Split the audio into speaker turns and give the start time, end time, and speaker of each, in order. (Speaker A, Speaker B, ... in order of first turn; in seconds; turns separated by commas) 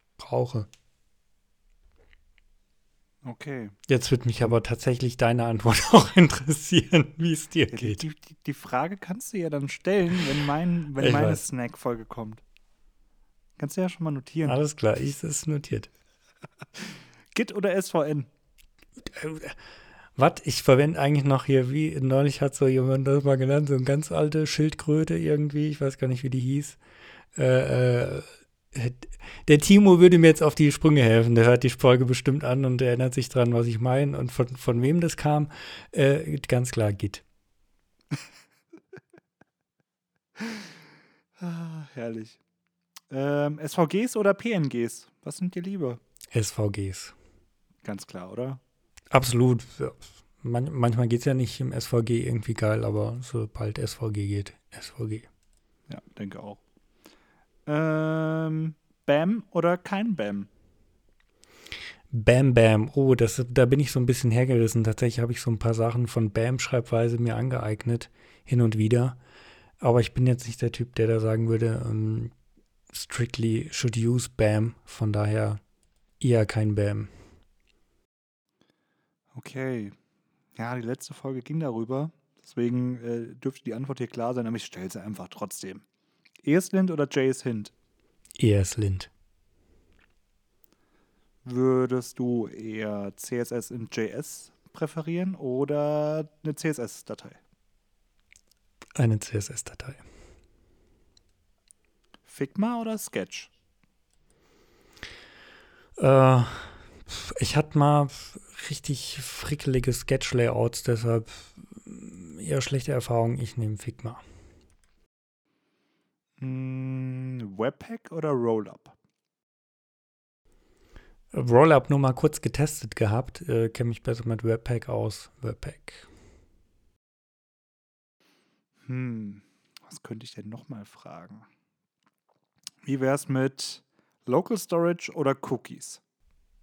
Speaker A: 0.2-0.7, Speaker B: 3.2-3.8, Speaker A: 3.9-8.0, Speaker B: 7.7-12.4, Speaker A: 11.0-11.4, Speaker B: 13.6-14.6, Speaker A: 14.4-15.9, Speaker B: 17.4-18.3, Speaker A: 19.0-19.6, Speaker A: 20.2-26.8, Speaker A: 27.4-37.2, Speaker B: 40.4-40.7, Speaker B: 41.4-42.4, Speaker B: 43.1-46.0, Speaker A: 46.3-47.1, Speaker B: 47.8-48.6, Speaker A: 49.1-55.3, Speaker B: 55.9-56.6, Speaker B: 57.7-60.5, Speaker A: 62.1-69.2, Speaker A: 69.8-72.3, Speaker A: 72.9-75.6, Speaker A: 76.2-77.1, Speaker B: 79.3-80.0, Speaker B: 80.6-85.8, Speaker B: 86.4-87.7, Speaker A: 88.4-89.1, Speaker B: 91.5-97.4, Speaker A: 99.0-100.0, Speaker B: 102.3-103.5, Speaker A: 106.0-114.2, Speaker B: 116.4-119.0, Speaker A: 121.3-126.1, Speaker B: 128.9-131.5, Speaker B: 132.8-136.0